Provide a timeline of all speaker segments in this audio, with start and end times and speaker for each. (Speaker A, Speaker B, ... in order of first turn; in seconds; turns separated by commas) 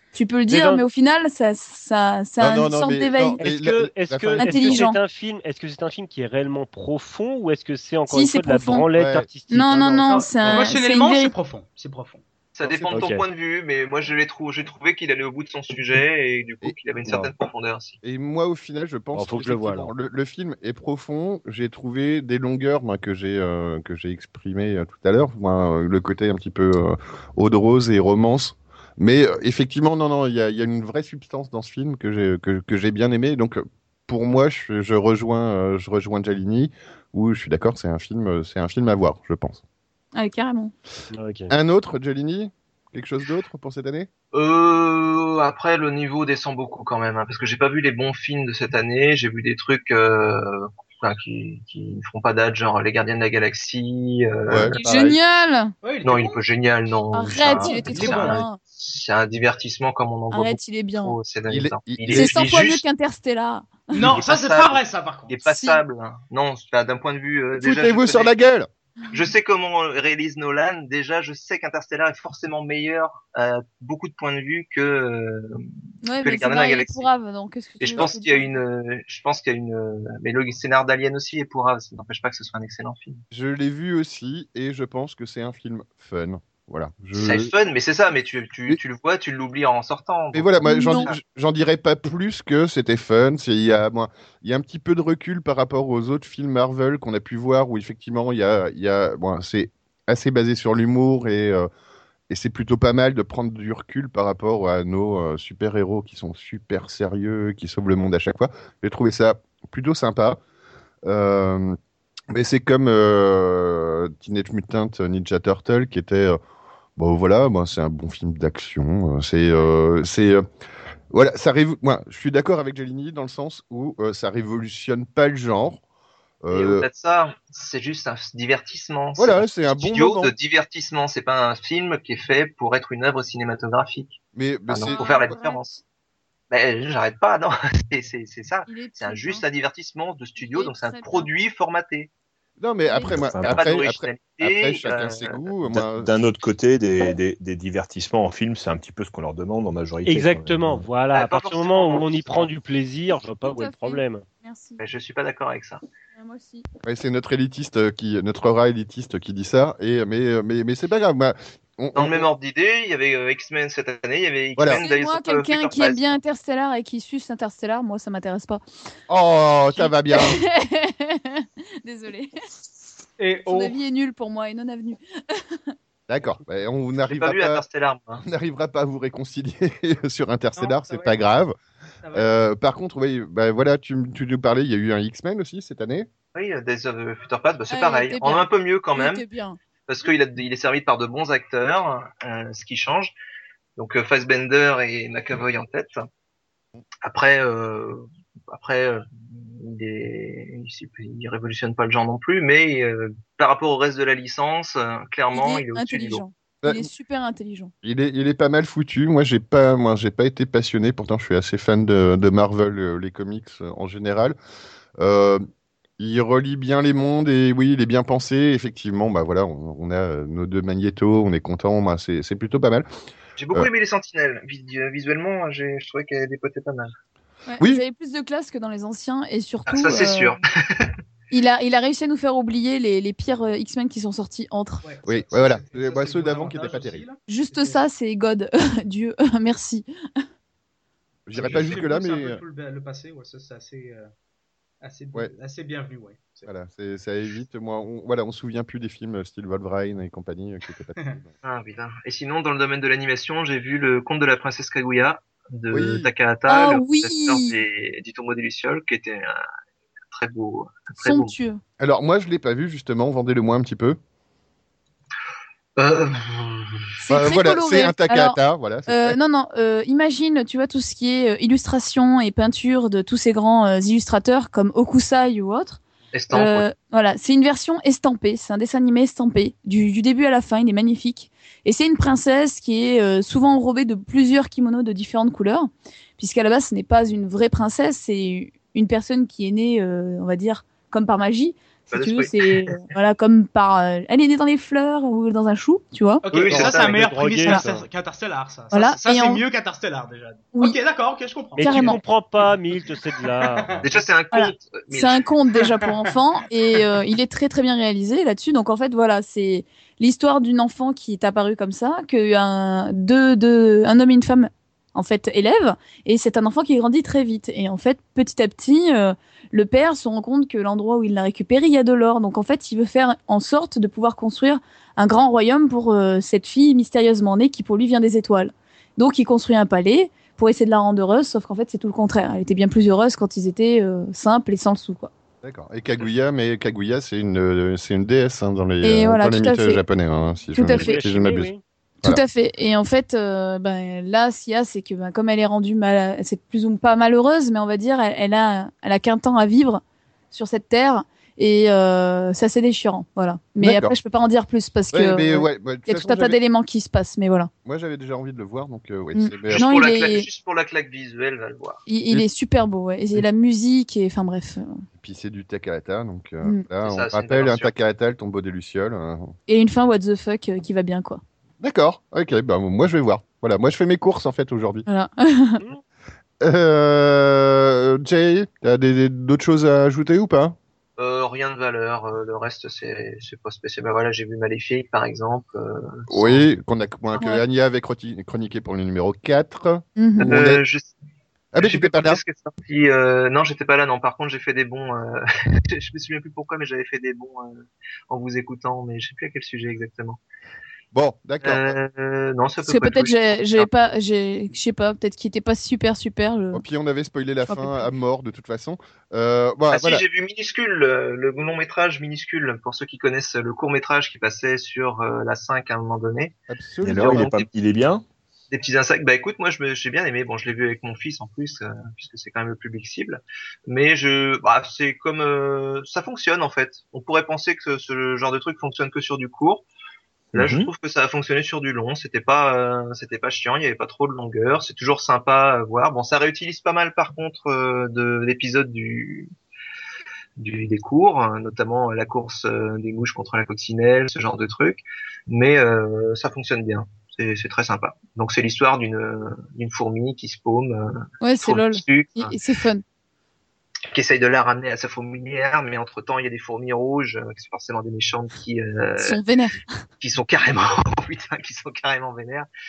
Speaker A: 0.1-3.4, Speaker B: 0.5-0.9, Speaker C: 2.4-4.8, Speaker B: 3.4-10.0, Speaker A: 4.4-5.0, Speaker A: 8.1-8.9, Speaker C: 8.9-10.6, Speaker A: 9.5-11.3, Speaker D: 10.1-12.2, Speaker E: 12.6-18.0, Speaker C: 12.6-13.1, Speaker B: 12.9-13.2, Speaker C: 16.6-17.3, Speaker C: 18.0-39.6, Speaker B: 19.1-19.9, Speaker A: 40.2-40.7, Speaker B: 41.1-41.5, Speaker C: 41.5-44.1, Speaker E: 44.3-54.8, Speaker C: 54.5-55.2, Speaker A: 54.8-55.7, Speaker D: 55.8-56.4, Speaker E: 56.0-62.8, Speaker A: 57.1-58.6, Speaker D: 57.5-58.4, Speaker A: 60.3-61.2, Speaker C: 61.5-62.4, Speaker A: 62.1-64.1, Speaker D: 63.9-65.4, Speaker E: 64.0-68.3, Speaker A: 65.5-65.8, Speaker C: 67.6-68.7, Speaker E: 69.1-75.6, Speaker A: 76.0-78.6, Speaker E: 76.2-77.1, Speaker E: 77.8-83.2, Speaker C: 83.3-87.5, Speaker E: 87.2-91.2, Speaker C: 90.3-101.7, Speaker A: 90.6-91.1, Speaker C: 102.3-110.4, Speaker C: 111.0-111.8, Speaker C: 112.3-116.4, Speaker C: 117.0-120.4, Speaker C: 121.1-125.8, Speaker C: 126.4-126.9, Speaker E: 126.5-135.8, Speaker C: 129.2-130.3, Speaker C: 134.3-135.3, Speaker A: 134.9-135.6, Speaker E: 136.5-142.1, Speaker A: 138.7-139.4, Speaker A: 140.4-141.3, Speaker C: 142.6-146.1, Speaker A: 142.8-143.3, Speaker F: 143.1-143.7, Speaker E: 143.5-145.5, Speaker F: 145.7-150.9, Speaker B: 150.1-154.2, Speaker E: 151.1-152.5, Speaker A: 153.1-154.8, Speaker E: 154.8-155.8, Speaker A: 156.2-156.7, Speaker C: 156.8-162.3, Speaker E: 161.9-166.2, Speaker C: 164.6-164.8, Speaker A: 164.7-168.6, Speaker C: 169.1-170.4, Speaker A: 169.7-172.3, Speaker D: 173.2-173.8, Speaker A: 173.5-175.4, Speaker C: 176.1-177.6, Speaker E: 177.1-178.2, Speaker C: 178.2-181.6, Speaker D: 180.6-181.2, Speaker D: 182.0-182.3, Speaker C: 182.1-186.1, Speaker E: 186.3-189.2, Speaker A: 187.7-189.6, Speaker E: 189.9-193.1, Speaker E: 193.8-196.0, Speaker E: 197.0-206.2, Speaker A: 205.3-207.7, Speaker C: 206.6-206.9, Speaker C: 207.8-214.4, Speaker C: 215.0-215.4, Speaker C: 216.0-222.9, Speaker E: 223.4-226.9, Speaker A: 227.5-230.3, Speaker E: 229.7-230.9, Speaker A: 231.3-234.8, Speaker D: 234.8-237.8, Speaker C: 235.1-237.1, Speaker A: 237.3-239.9, Speaker C: 241.3-242.4, Speaker D: 241.3-244.1, Speaker D: 244.8-246.5, Speaker C: 246.5-251.3, Speaker E: 251.4-259.4, Speaker C: 255.7-256.1, Speaker A: 256.5-257.6, Speaker E: 260.1-261.3, Speaker A: 261.0-261.6, Speaker C: 261.8-264.0, Speaker E: 265.8-266.8, Speaker A: 267.0-275.8, Speaker C: 267.1-269.2, Speaker E: 276.1-276.7, Speaker A: 276.3-296.2, Speaker E: 291.9-292.8, Speaker D: 296.2-302.0, Speaker E: 296.3-297.6, Speaker B: 296.5-297.9, Speaker A: 298.7-299.4, Speaker B: 301.6-303.9, Speaker A: 301.6-302.0, Speaker D: 303.1-303.8, Speaker E: 303.8-305.2, Speaker A: 304.3-335.1, Speaker C: 335.4-341.5, Speaker A: 338.8-339.8, Speaker A: 340.6-341.0, Speaker B: 340.7-341.6, Speaker A: 342.0-357.5, Speaker C: 353.6-354.0, Speaker C: 354.9-356.4, Speaker C: 357.6-359.8, Speaker A: 359.1-360.3, Speaker E: 359.5-361.8, Speaker A: 361.9-364.8, Speaker C: 365.0-369.3, Speaker E: 366.8-367.7, Speaker A: 369.5-371.2, Speaker C: 371.6-374.9, Speaker A: 374.9-375.6, Speaker C: 376.4-380.6, Speaker E: 381.0-386.4, Speaker C: 386.1-390.6, Speaker A: 390.0-390.3, Speaker E: 390.2-390.9, Speaker C: 391.5-392.2, Speaker E: 391.6-400.2, Speaker C: 400.9-401.8, Speaker E: 401.4-403.7, Speaker A: 402.7-406.6, Speaker C: 406.5-410.0, Speaker A: 407.5-407.9, Speaker E: 409.7-416.3, Speaker C: 416.5-417.3, Speaker F: 416.8-418.0, Speaker E: 416.9-417.5, Speaker E: 418.5-429.6, Speaker F: 430.3-430.7, Speaker E: 430.4-439.3, Speaker E: 440.4-452.3, Speaker A: 451.2-452.8, Speaker E: 453.9-459.2, Speaker A: 459.0-459.6, Speaker E: 460.0-462.5